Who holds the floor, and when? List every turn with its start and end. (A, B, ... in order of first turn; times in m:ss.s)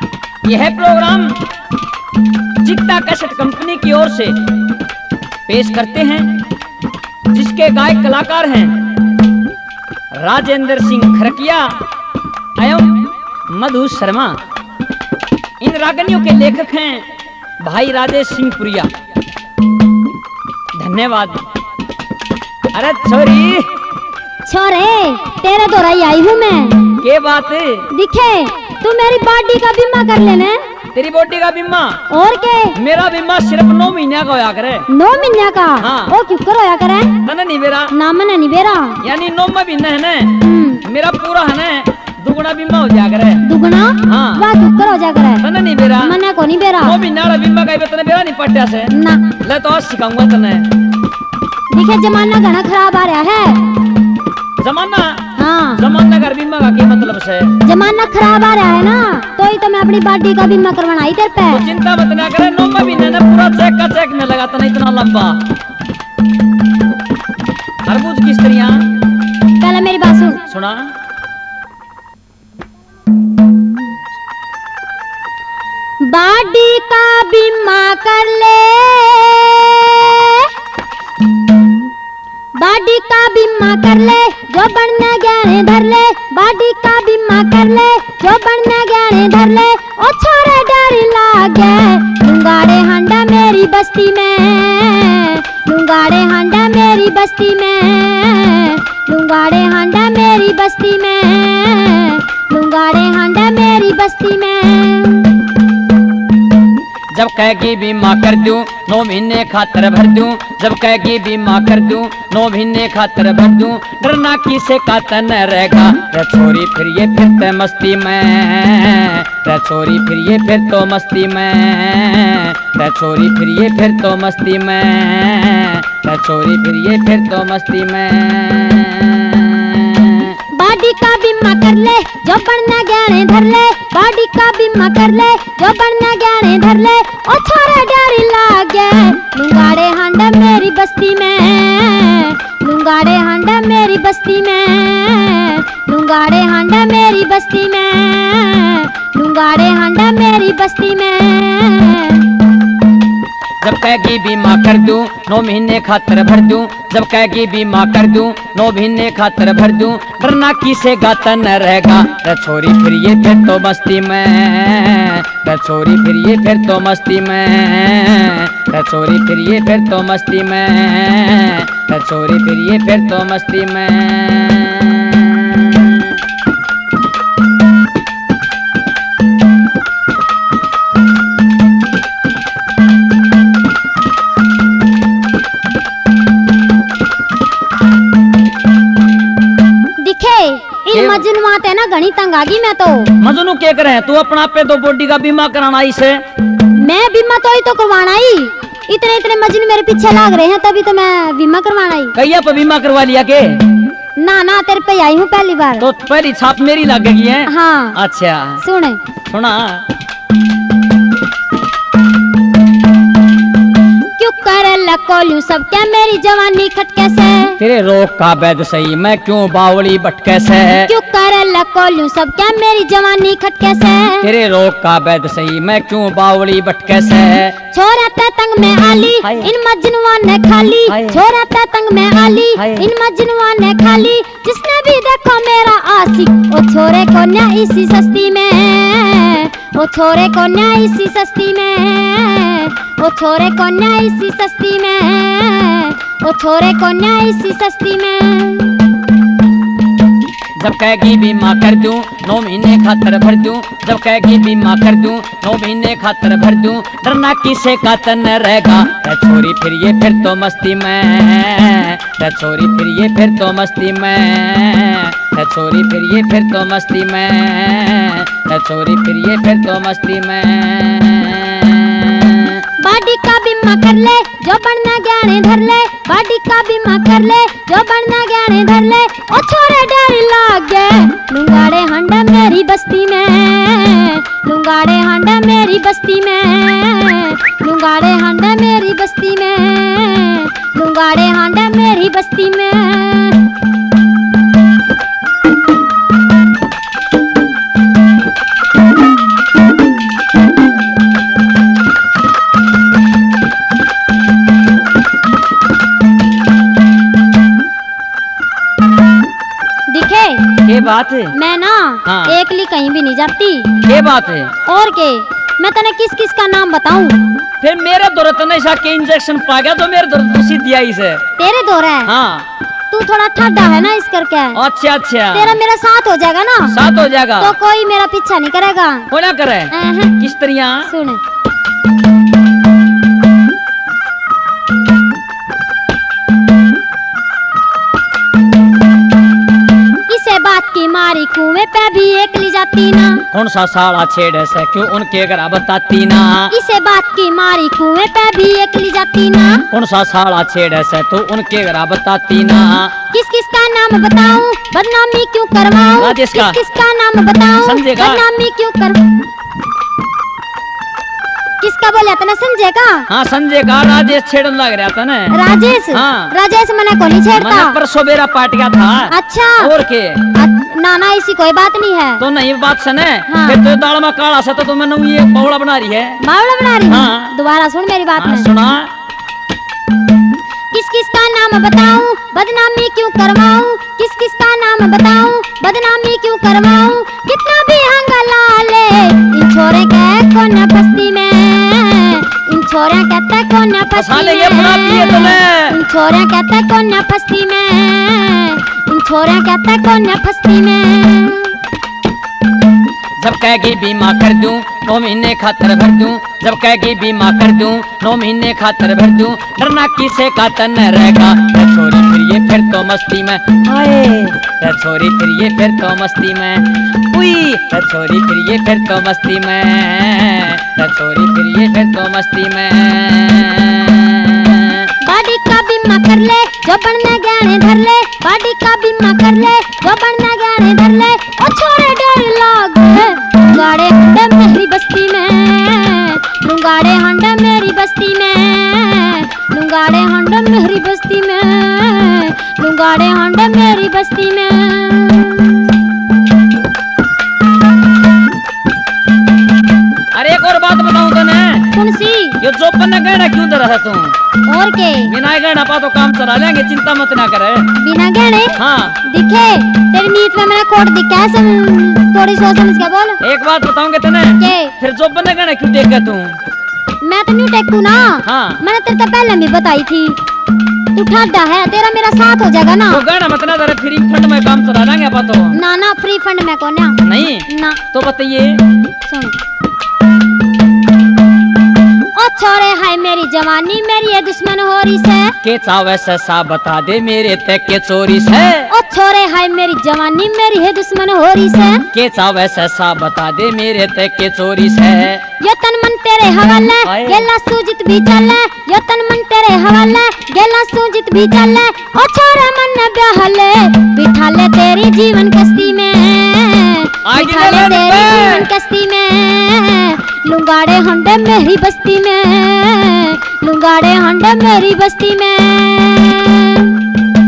0:00.4-0:01.4 A
0:02.6-0:04.4 A
0:05.5-0:06.4 A
0:07.3-0:08.9 A
0:10.1-0:11.7 A
0:12.6-0:14.4 A
0:15.6-0:17.1 A
0:17.6-0:18.9 A
0:20.8-0:21.4 A
0:22.7-0:23.8 A
0:24.4-0:27.0 B
0:27.0-0:27.9 A
0:27.9-0:30.6 B
0:30.9-0:32.0 A
0:32.1-0:32.8 B
0:32.7-0:34.9 A
0:34.9-0:37.2 B
0:35.8-0:36.2 A
0:37.2-0:37.9 A
0:37.9-0:39.0 B
0:39.0-0:43.5 A
0:40.4-0:40.8 B
0:43.4-0:45.4 B
0:44.0-0:44.5 A
0:45.4-0:46.2 A
0:46.0-0:47.0 B
0:46.8-0:50.7 A
0:48.9-0:49.3 B
0:51.7-0:53.7 B
0:54.6-0:57.5 A
0:55.4-0:55.8 B
0:57.6-1:01.7 B
1:01.5-1:05.4 A
1:07.8-1:08.8 A
1:09.6-1:10.4 B
1:10.5-1:10.9 A
1:16.0-1:20.5 B
1:22.6-1:45.4 B
1:47.1-2:10.4 A
2:10.5-2:32.3 B
2:33.6-2:56.2 A
3:10.0-3:13.1 B
3:10.9-3:11.2 A
3:13.2-3:16.2 A
3:16.7-3:22.2 B
3:22.2-3:23.7 A
3:24.2-3:25.9 B
3:25.8-3:28.6 A
3:27.5-3:28.0 B
3:28.6-3:29.0 B
3:29.3-3:29.8 A
3:34.2-3:37.6 B
3:37.6-3:40.9 A
3:40.9-3:44.3 B
3:44.2-3:47.6 A
3:47.7-4:08.8 B
3:49.2-3:49.5 A
3:50.9-3:51.2 A
3:52.6-3:52.9 A
4:10.6-4:32.6 A
4:32.8-4:53.5 B
5:09.9-5:10.6 B
5:10.6-5:11.3 A
5:11.3-5:13.7 B
5:12.0-5:12.4 A
5:13.8-5:14.5 A
5:14.6-5:17.2 B
5:17.6-5:21.2 A
5:21.4-5:22.1 B
5:22.0-5:22.5 A
5:22.9-5:24.6 B
5:24.5-5:25.6 A
5:25.3-5:26.8 B
5:26.7-5:27.5 A
5:27.4-5:29.1 B
5:29.1-5:30.9 A
5:29.7-5:30.2 B
5:30.8-5:31.2 B
5:40.1-5:43.2 B
5:43.3-5:46.5 A
5:46.5-5:49.6 B
5:49.7-5:52.9 A
5:53.1-5:59.1 B
5:56.0-5:56.6 A
5:57.6-5:58.2 A
6:01.6-6:03.1 B
6:03.1-6:05.4 A
6:05.3-6:07.8 B
6:05.9-6:06.3 A
6:07.3-6:10.2 A
6:09.1-6:09.7 B
6:10.3-6:12.2 B
6:12.2-6:16.2 A
6:13.3-6:13.6 B
6:16.2-6:18.5 B
6:16.9-6:17.3 A
6:18.2-6:18.9 A
6:20.7-6:41.5 B
6:33.9-6:35.8 A
6:43.2-7:04.9 A
7:05.0-7:25.7 B
7:30.1-7:31.7 A
7:31.7-7:32.4 B
7:32.4-7:34.1 A
7:34.5-7:35.1 B
7:35.1-7:37.7 A
7:37.8-7:43.2 B
7:38.6-7:39.0 A
7:43.2-7:46.4 A
7:44.4-7:44.7 B
7:47.0-7:50.2 B
7:48.2-7:48.6 A
7:50.9-7:53.0 B
7:52.9-7:55.6 A
7:55.5-7:57.8 B
7:57.0-7:58.7 A
7:59.0-7:59.3 B
8:02.1-8:05.4 B
8:05.4-8:08.7 A
8:08.7-8:11.9 B
8:11.9-8:15.2 A
8:15.4-8:36.8 B
8:16.8-8:17.3 A
8:27.0-8:28.5 A